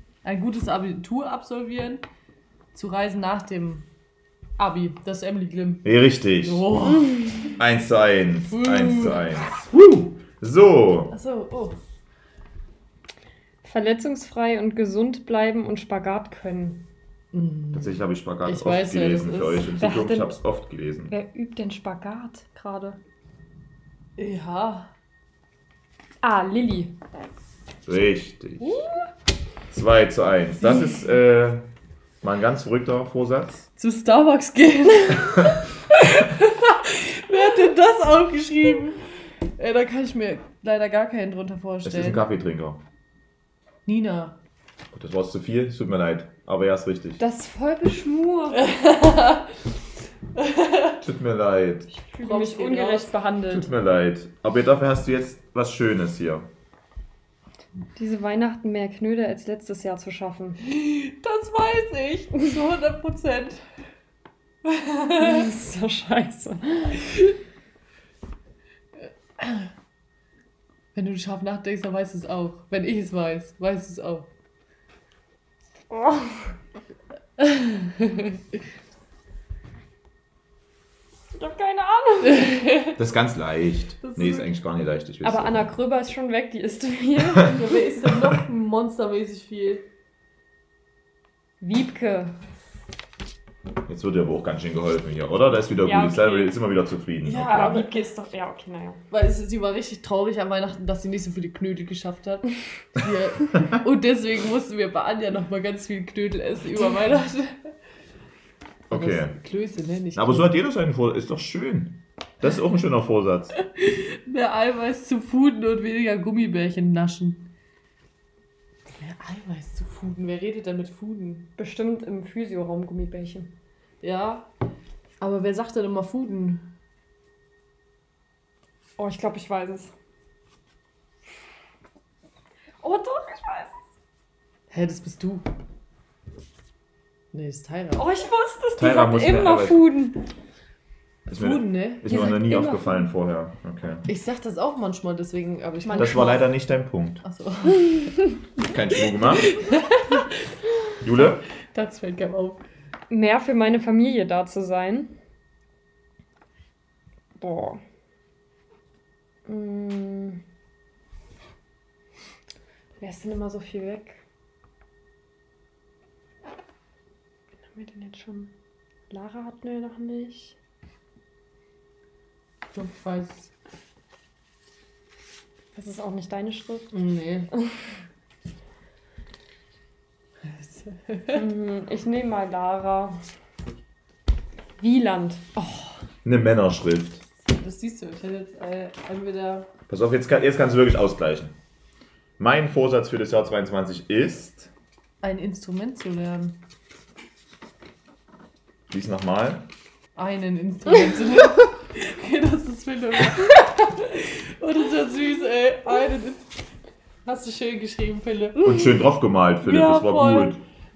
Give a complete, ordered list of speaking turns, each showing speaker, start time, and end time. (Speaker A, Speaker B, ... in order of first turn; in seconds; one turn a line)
Speaker A: 0.2-2.0
Speaker A: 2.7-3.9
Speaker A: 4.6-7.3
Speaker B: 5.8-6.7
Speaker B: 7.6-11.1
Speaker A: 8.5-9.2
Speaker A: 11.1-11.8
Speaker C: 13.6-16.9
Speaker A: 17.3-19.7
Speaker B: 17.7-21.1
Speaker C: 19.8-20.4
Speaker C: 21.1-23.0
Speaker A: 24.2-24.9
Speaker C: 26.2-26.9
Speaker B: 27.9-28.8
Speaker C: 28.6-28.9
Speaker B: 29.7-31.6
Speaker B: 32.2-33.7
Speaker A: 33.8-39.0
Speaker A: 39.6-42.2
Speaker B: 41.8-42.8
Speaker A: 43.9-44.4
Speaker B: 44.9-47.2
Speaker C: 47.2-48.8
Speaker A: 48.5-49.5
Speaker A: 50.4-51.0
Speaker B: 51.0-51.9
Speaker C: 51.9-53.7
Speaker A: 52.2-53.1
Speaker B: 53.5-56.5
Speaker C: 58.0-60.6
Speaker A: 60.6-63.6
Speaker A: 64.6-65.4
Speaker C: 65.2-67.1
Speaker A: 69.4-69.7
Speaker A: 70.9-74.3
Speaker C: 75.9-76.5
Speaker A: 77.4-78.3
Speaker C: 81.3-82.6
Speaker A: 82.4-82.9
Speaker B: 82.9-85.6
Speaker A: 84.0-84.5
Speaker C: 85.2-87.6
Speaker A: 87.5-89.8
Speaker C: 91.6-92.3
Speaker B: 93.9-97.7
Speaker C: 95.8-96.6
Speaker A: 97.2-98.0
Speaker C: 97.4-99.0
Speaker A: 99.1-107.7
Speaker B: 108.9-109.3
Speaker A: 108.9-110.5
Speaker B: 110.2-113.5
Speaker A: 113.7-117.5
Speaker A: 118.9-121.5
Speaker C: 121.6-123.5
Speaker A: 124.0-124.5
Speaker A: 125.2-126.7
Speaker C: 129.0-129.9
Speaker C: 132.8-133.8
Speaker A: 134.7-135.5
Speaker A: 137.3-138.1
Speaker C: 138.0-140.2
Speaker B: 138.8-139.9
Speaker A: 141.3-142.1
Speaker B: 141.3-144.1
Speaker C: 142.0-143.1
Speaker A: 144.1-146.3
Speaker C: 145.8-146.4
Speaker B: 146.0-147.2
Speaker A: 147.2-148.1
Speaker B: 148.6-149.5
Speaker A: 149.4-150.2
Speaker B: 151.0-151.4
Speaker A: 151.7-152.6
Speaker C: 153.1-155.1
Speaker C: 157.3-157.8
Speaker C: 159.4-160.4
Speaker C: 163.0-164.2
Speaker C: 167.7-168.5
Speaker C: 169.1-170.6
Speaker A: 172.7-173.5
Speaker C: 175.7-176.9
Speaker A: 176.9-177.5
Speaker A: 180.4-181.4
Speaker C: 181.3-183.2
Speaker C: 184.8-185.9
Speaker B: 186.2-187.2
Speaker A: 187.5-189.7
Speaker B: 189.9-191.5
Speaker B: 192.4-194.7
Speaker A: 195.2-196.6
Speaker B: 198.9-199.7
Speaker A: 200.1-206.5
Speaker A: 207.2-208.8
Speaker B: 208.6-210.6
Speaker A: 209.6-210.6